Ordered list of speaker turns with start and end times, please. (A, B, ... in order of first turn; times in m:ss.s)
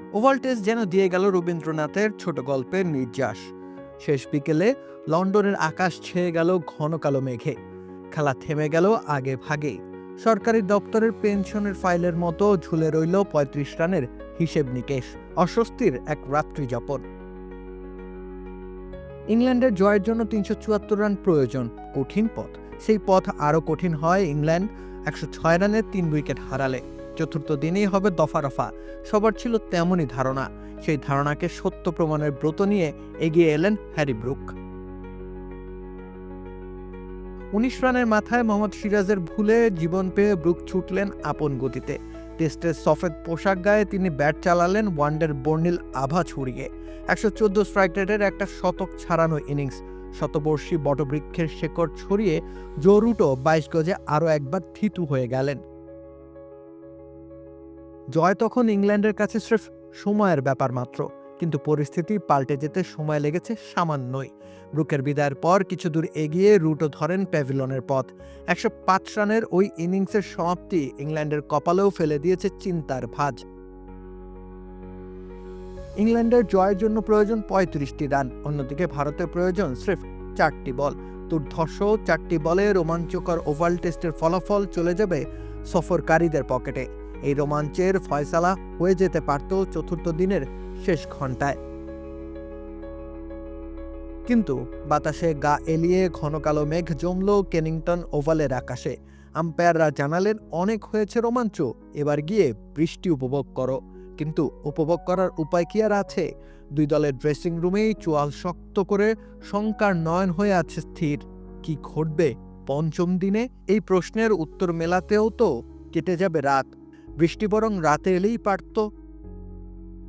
0:00.2-0:03.5 A
0:04.0-0:07.6 A
0:08.1-0:17.0 A
0:19.3-0:34.5 A
0:37.6-0:55.6 A
0:58.1-1:13.4 A
1:16.0-1:31.6 A
1:34.3-1:46.2 A
1:46.8-1:58.8 A